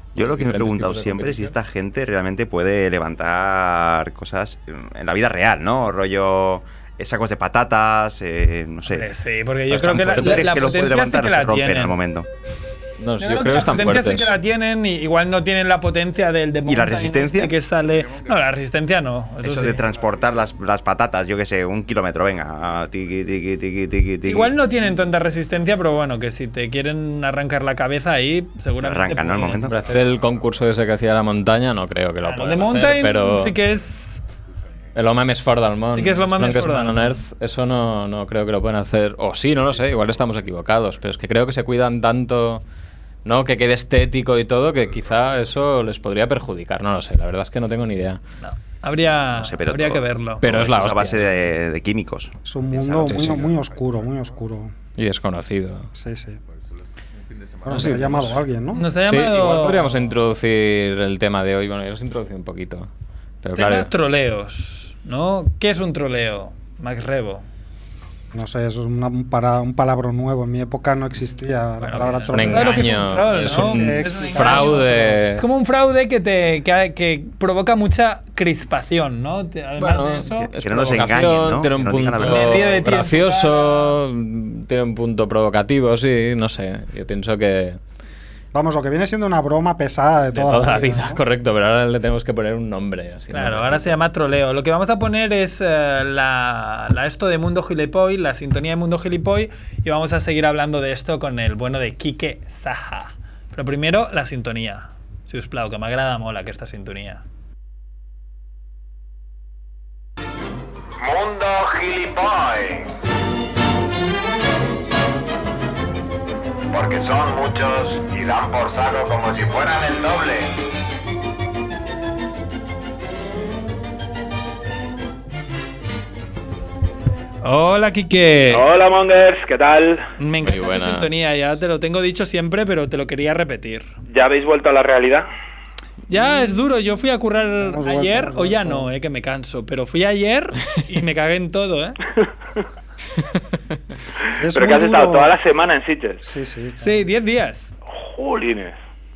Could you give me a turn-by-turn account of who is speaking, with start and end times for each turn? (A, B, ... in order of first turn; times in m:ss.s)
0:00.2-0:09.1 A
0:00.4-0:01.5 B
0:08.9-0:12.0 C
0:09.7-0:12.3 A
0:13.0-0:14.3 B
0:13.2-0:19.8 C
0:16.6-0:17.6 A
0:19.4-0:24.5 A
0:24.2-0:29.7 C
0:28.8-0:29.8 A
0:29.7-0:33.6 B
0:32.2-0:34.2 C
0:34.9-0:42.6 B
0:35.9-0:37.2 C
0:43.2-0:48.2 B
0:48.4-0:50.4 C
0:49.3-0:52.4 A
0:50.4-0:51.5 B
0:52.4-0:54.7 D
0:52.7-0:53.6 B
0:55.0-0:55.9 B
0:56.0-0:56.4 D
0:57.6-0:58.9 D
0:57.7-0:58.4 B
0:58.7-1:00.1 C
0:59.0-1:02.9 B
1:03.4-1:03.9 B
1:03.6-1:07.4 C
1:08.3-1:15.3 D
1:11.8-1:20.5 C
1:12.3-1:15.4 B
1:19.8-1:27.8 B
1:20.6-1:22.8 A
1:22.2-1:24.0 C
1:28.5-1:31.2 D
1:30.3-1:33.9 B
1:33.3-1:47.2 C
1:51.0-1:52.9 E
1:56.7-2:00.5 E
2:07.4-2:08.6 C
2:08.5-2:10.1 F
2:10.2-2:13.9 C
2:10.4-2:11.1 B
2:14.1-2:15.3 F
2:16.1-2:22.0 C
2:17.6-2:18.9 D
2:24.4-2:25.3 D
2:24.5-2:26.2 F
2:26.2-2:27.0 D
2:26.8-2:27.7 C
2:27.9-2:28.8 F